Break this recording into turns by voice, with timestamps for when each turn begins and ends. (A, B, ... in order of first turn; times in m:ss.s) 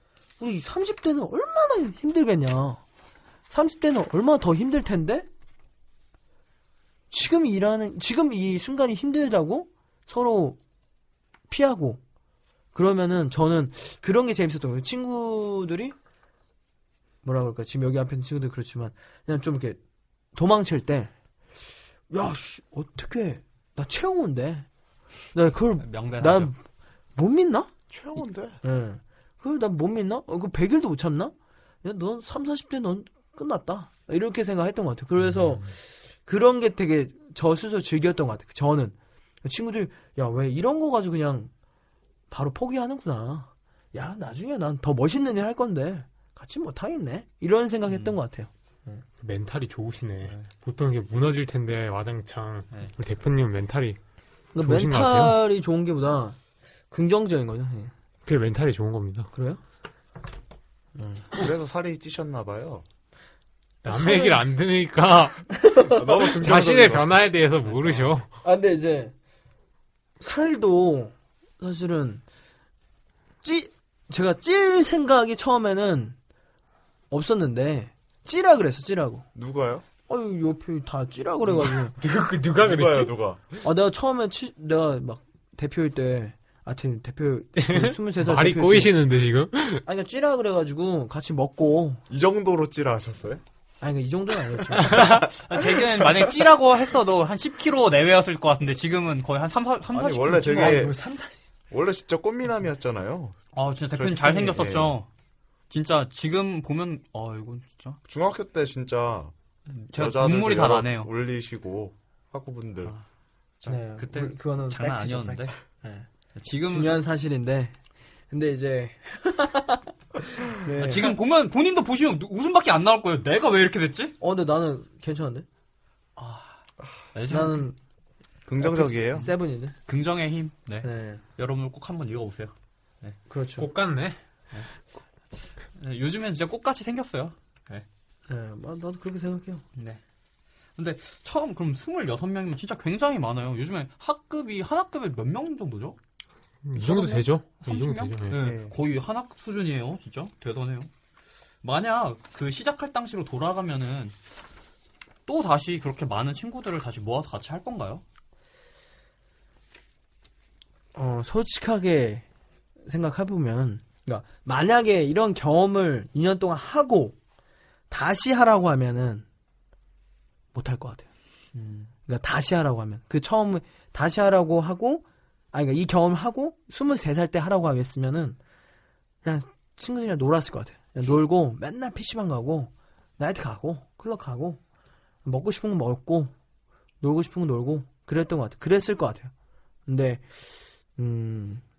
0:00.4-0:02.8 A
0:03.5-0:05.3 A
0:07.1-0:10.6 A
0:11.5-0:12.0 A
0:12.7-0:15.9 A
0:17.2-0:19.8 A
0:20.3-0:21.1 A
0:22.1-0:24.7 A
0:25.3-0:26.5 A
0:25.8-0:26.5 B
0:27.2-0:27.7 A
0:27.9-0:28.6 C
0:28.6-0:41.5 A
0:42.3-0:49.0 A
0:47.9-0:48.2 B
0:49.2-0:54.0 D
0:54.5-0:56.4 A
0:54.6-0:55.4 D
0:56.9-0:57.9 A
0:58.2-0:59.3 D
0:59.3-0:59.6 A
1:01.0-1:01.4 A
1:01.3-1:02.8 C
1:03.8-1:04.4 A
1:03.8-1:08.3 D
1:05.5-1:06.2 A
1:05.9-1:07.4 C
1:07.8-1:08.1 B
1:08.4-1:09.1 A
1:10.2-1:12.2 A
1:13.4-1:16.2 A
1:17.1-1:19.2 A
1:19.3-1:19.8 C
1:20.1-1:21.9 A
1:21.5-1:23.5 D
1:22.6-1:23.4 C
1:23.6-1:29.0 A
1:27.6-1:29.8 D
1:29.8-1:32.0 A
1:32.1-1:33.4 C
1:33.8-1:35.2 A
1:34.8-1:41.0 B
1:39.9-1:40.9 C
1:40.4-1:41.3 A
1:41.7-1:43.4 C
1:43.5-1:45.1 B
1:43.9-1:44.9 C
1:45.7-1:48.0 B
1:48.0-1:49.3 C
1:49.7-1:51.1 B
1:49.9-1:52.9 C
1:53.6-1:55.5 B
1:53.7-1:56.1 A
1:56.4-1:56.9 B
1:56.6-1:57.8 A
1:58.3-2:01.2 A
2:00.8-2:04.1 B
2:04.2-2:05.4 A
2:06.2-2:06.6 B
2:07.1-2:07.7 B
2:07.3-2:07.8 A
2:08.4-2:09.3 C
2:08.6-2:09.8 A
2:09.9-2:13.2 B
2:10.8-2:11.2 A
2:13.3-2:13.7 A
2:13.6-2:14.2 D
2:15.6-2:17.8 B
2:18.3-2:19.6 A
2:19.8-2:20.0 B
2:20.8-2:26.0 B
2:26.6-2:28.4 D
2:26.7-2:30.9 B
2:28.3-2:28.7 C
2:31.6-2:34.1 B
2:35.2-2:38.0 B
2:40.9-2:42.2 A
2:42.8-2:47.2 A
2:47.9-2:49.2 A
2:50.5-2:51.1 A
2:51.5-2:51.9 B
2:52.1-2:58.4 A
2:59.2-3:04.6 A
3:05.2-3:06.3 A
3:07.0-3:09.3 A
3:09.9-3:10.4 A
3:11.0-3:11.6 A